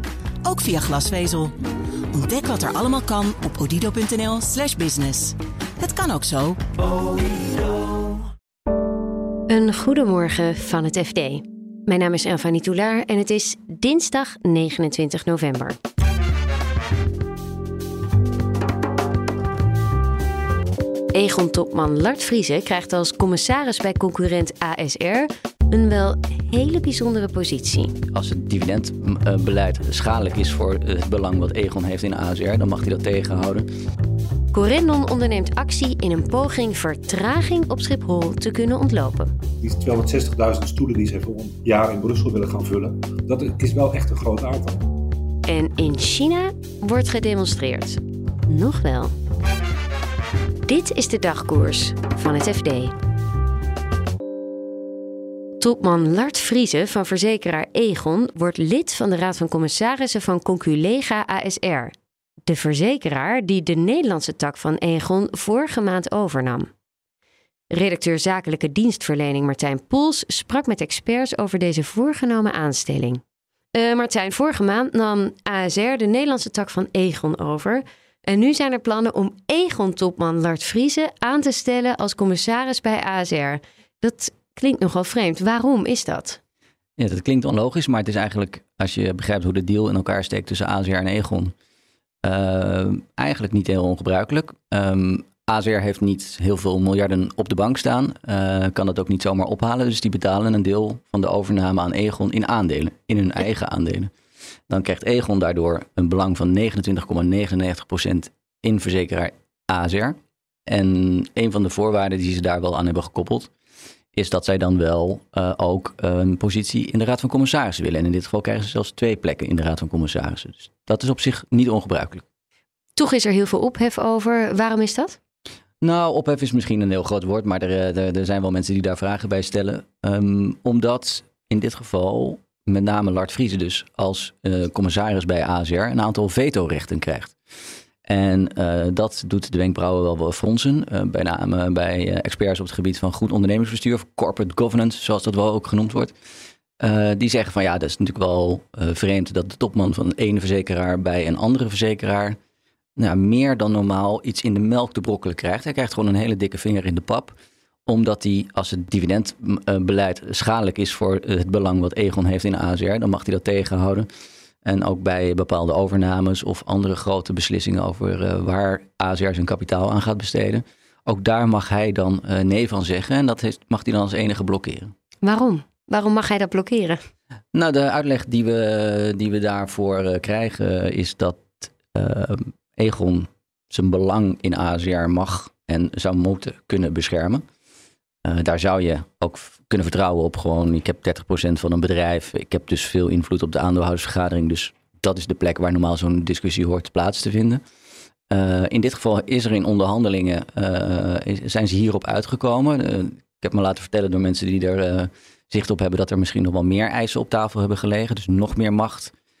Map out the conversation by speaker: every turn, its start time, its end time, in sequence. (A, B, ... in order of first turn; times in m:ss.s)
0:00.4-0:01.5 A
0:02.1-0:06.6 A
0:09.5-0:15.8 B
0:21.1-0:27.9 B
0:28.1-0:33.7 C
0:34.5-0:39.3 B
0:39.6-0:44.8 D
0:45.4-0:49.1 B
0:50.6-0:52.9 B
0:55.6-1:01.9 B
1:02.4-1:06.7 B
1:07.7-1:13.2 B
1:13.7-1:26.4 B
1:27.0-1:31.5 C
1:32.2-1:44.1 C
1:44.7-1:50.2 C
1:50.7-1:53.5 C
1:54.1-2:02.2 C
2:03.0-2:05.2 B
2:05.8-2:17.4 C
2:18.0-2:26.1 C
2:26.8-2:32.4 C
2:33.0-2:37.3 C
2:37.9-2:44.1 C
2:44.6-2:54.9 C
2:55.2-2:57.0 B
2:57.5-3:07.4 C
3:08.2-3:17.6 C
3:18.3-3:29.1 C